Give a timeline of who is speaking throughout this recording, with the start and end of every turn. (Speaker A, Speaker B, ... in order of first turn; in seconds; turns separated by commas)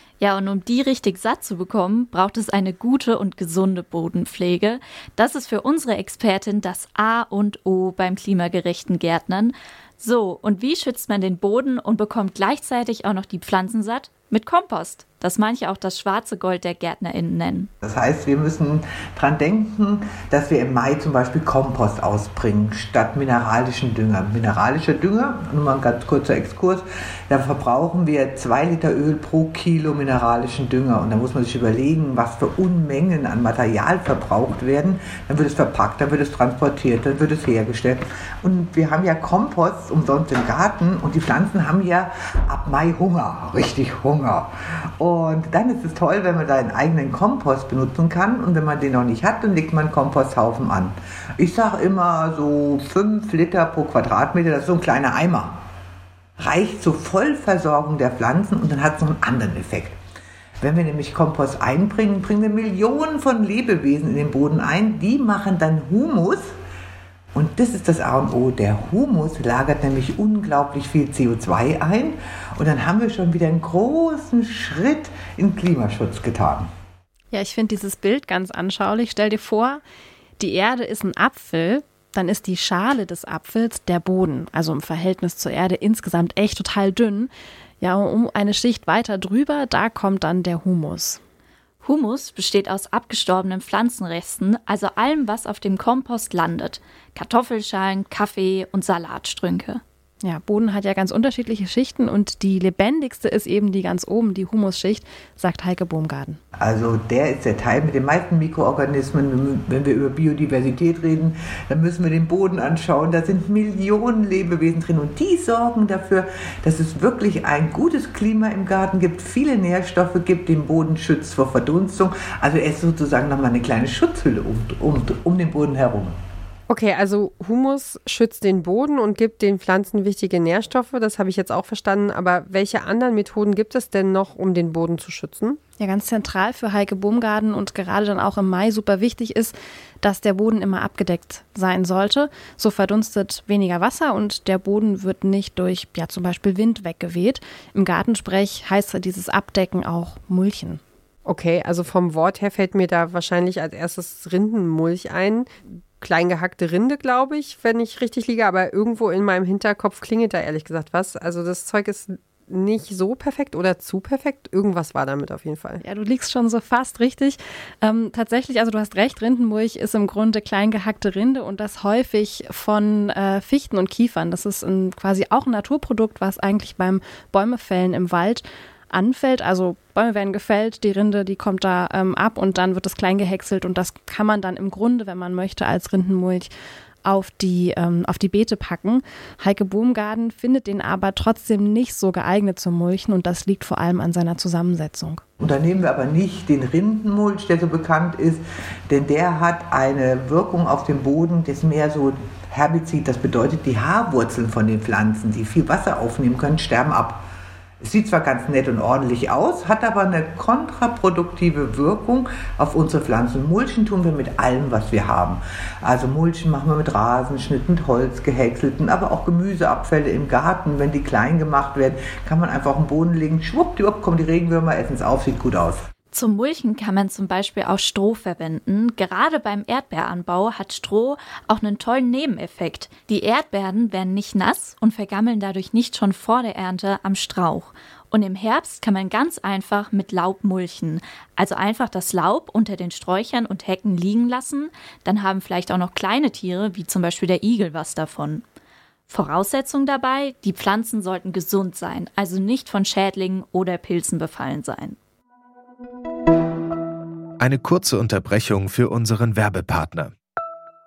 Speaker A: 0.2-17.7, Speaker B: 17.8-55.6, Speaker B: 56.4-60.0, Speaker B: 60.6-66.5, Speaker B: 67.3-76.7, Speaker C: 77.3-79.8, Speaker C: 80.4-87.3, Speaker C: 87.8-91.2, Speaker A: 91.8-99.8, Speaker C: 100.2-106.4, Speaker B: 106.5-126.2, Speaker D: 126.7-135.6, Speaker C: 135.8-150.8, Speaker D: 151.2-165.8, Speaker C: 165.8-186.5, Speaker C: 187.0-195.2, Speaker B: 195.4-207.2, Speaker B: 207.8-225.9, Speaker A: 226.1-248.4, Speaker A: 249.1-255.0, Speaker E: 257.4-260.1